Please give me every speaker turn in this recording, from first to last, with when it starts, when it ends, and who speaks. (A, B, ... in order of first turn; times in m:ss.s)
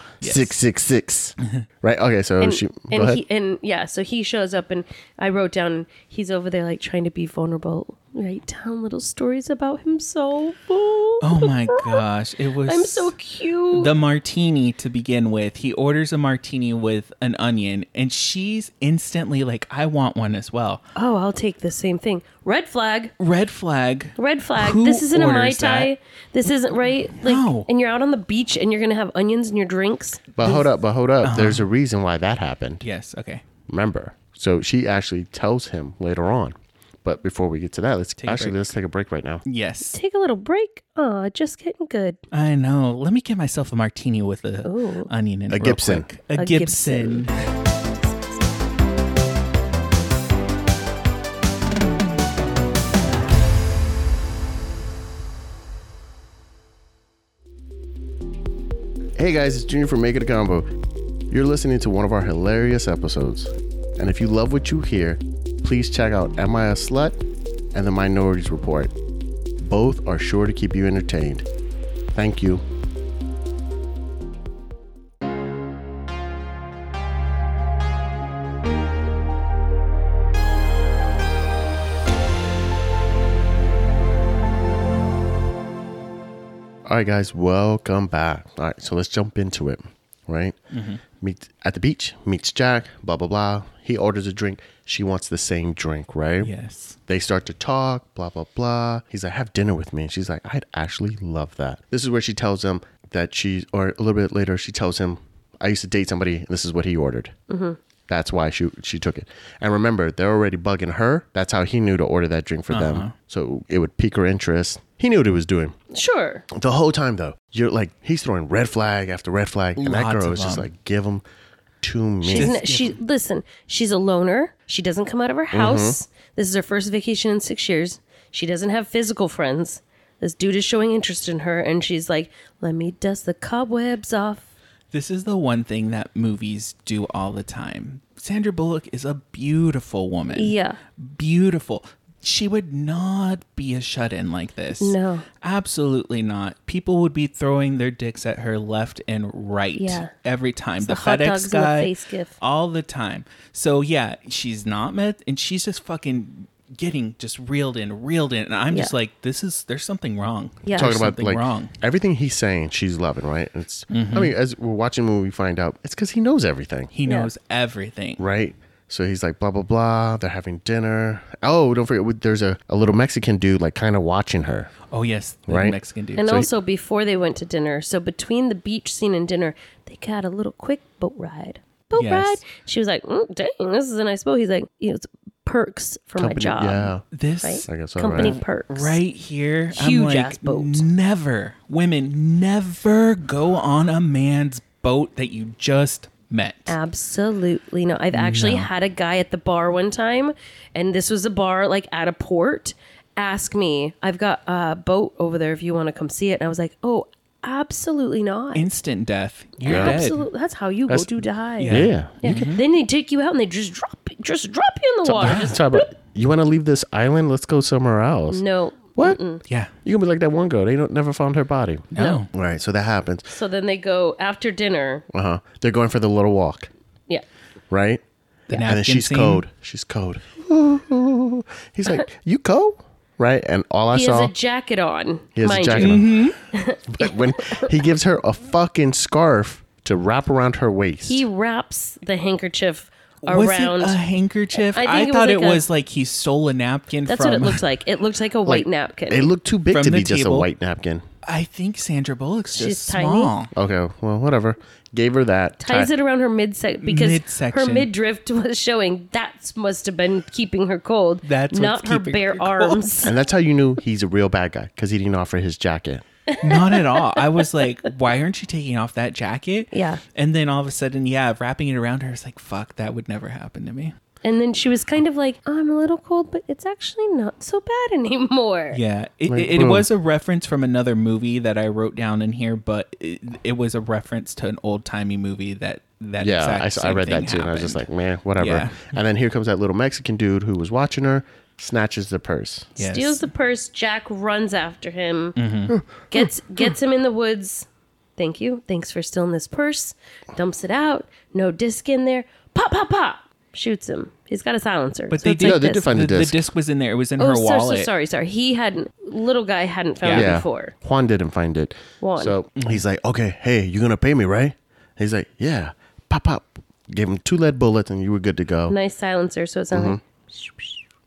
0:00.2-0:00.6 A
0:00.2-0:03.2 B
0:02.4-0:12.0 C
0:11.2-0:13.1 A
0:12.7-0:13.9 C
0:13.7-0:20.8 A
0:21.0-0:23.1 C
0:23.2-0:25.9 A
0:24.2-0:30.3 C
0:27.2-0:27.7 A
0:30.4-0:32.8 B
0:31.2-0:31.7 A
0:32.8-0:33.4 A
0:33.7-0:39.4 B
0:38.2-0:38.7 A
0:39.4-0:40.0 A
0:39.9-0:42.2 C
0:42.3-0:47.4 A
0:44.6-0:45.1 C
0:45.5-0:46.1 B
0:46.4-0:47.3 C
0:59.2-1:00.7 B
1:01.3-1:07.2 B
1:07.7-1:08.9 B
1:09.6-1:11.5 B
1:12.1-1:12.6 B
1:26.9-1:30.6 B
1:30.7-1:31.0 A
1:31.2-1:36.5 B
1:36.4-1:37.0 A
1:37.1-1:47.3 B
1:47.5-1:47.8 C
1:48.1-1:55.8 B
1:52.7-1:53.2 A
1:55.9-1:56.5 C
1:56.5-2:01.2 B
1:59.8-2:00.7 A
2:01.8-2:02.6 B
2:02.2-2:14.5 C
2:02.3-2:03.0 A
2:05.5-2:06.0 B
2:14.9-2:41.7 A
2:20.3-2:20.8 C
2:24.8-2:25.3 C
2:29.8-2:30.1 C
2:30.8-2:32.4 C
2:40.6-2:41.0 C
2:40.8-2:46.9 B
2:43.9-2:44.4 A
2:46.9-2:48.2 A
2:48.2-2:54.7 B
2:54.9-2:56.5 A
2:55.5-2:56.5 B
2:56.2-3:06.9 C
3:02.0-3:02.4 A
3:06.2-3:07.0 B
3:07.1-3:16.8 A
3:07.4-3:09.0 C
3:07.7-3:08.4 B
3:09.7-3:10.8 C
3:16.7-3:28.6 C
3:18.1-3:18.7 A
3:28.6-3:30.2 A
3:29.6-3:35.9 C
3:29.7-3:30.0 B
3:30.9-3:31.1 B
3:31.6-3:32.6 A
3:31.7-3:32.5 B
3:35.0-3:38.4 B
3:35.2-3:35.6 A
3:38.3-3:39.4 C
3:39.5-3:39.7 A
3:39.8-3:43.3 B
3:41.9-3:42.3 A
3:42.0-3:42.2 C
3:43.3-3:45.0 C
3:45.1-3:46.7 B
3:47.7-3:48.0 B
3:48.5-3:49.4 A
3:48.5-3:54.3 B
3:53.9-3:57.7 C
3:55.4-3:56.1 B
3:55.8-3:56.4 A
3:56.9-4:01.3 B
4:01.0-4:04.0 C
4:03.2-4:07.6 A
4:04.6-4:05.6 C
4:07.1-4:09.3 C
4:08.5-4:11.0 B
4:09.7-4:10.5 A
4:11.2-4:13.5 A
4:12.5-4:13.3 C
4:13.5-4:15.9 B
4:15.6-4:23.1 C
4:16.8-4:17.9 A
4:21.2-4:23.1 A
4:23.1-4:26.0 B
4:26.3-4:27.2 C
4:26.4-4:33.9 A
4:29.7-4:30.0 C
4:34.2-4:38.8 C
4:38.7-4:47.8 A
4:39.3-4:39.9 B
4:46.2-4:52.7 B
4:48.4-4:48.9 A
4:52.8-4:53.3 A
4:52.8-4:55.4 C
4:55.4-4:55.8 A
4:56.1-5:05.9 C
5:05.1-5:07.9 A
5:05.4-5:06.4 B
5:07.2-5:10.7 C
5:10.0-5:10.4 A
5:10.1-5:18.8 B
5:12.0-5:12.4 C
5:12.6-5:12.8 A
5:18.7-5:20.8 C
5:19.7-5:20.0 B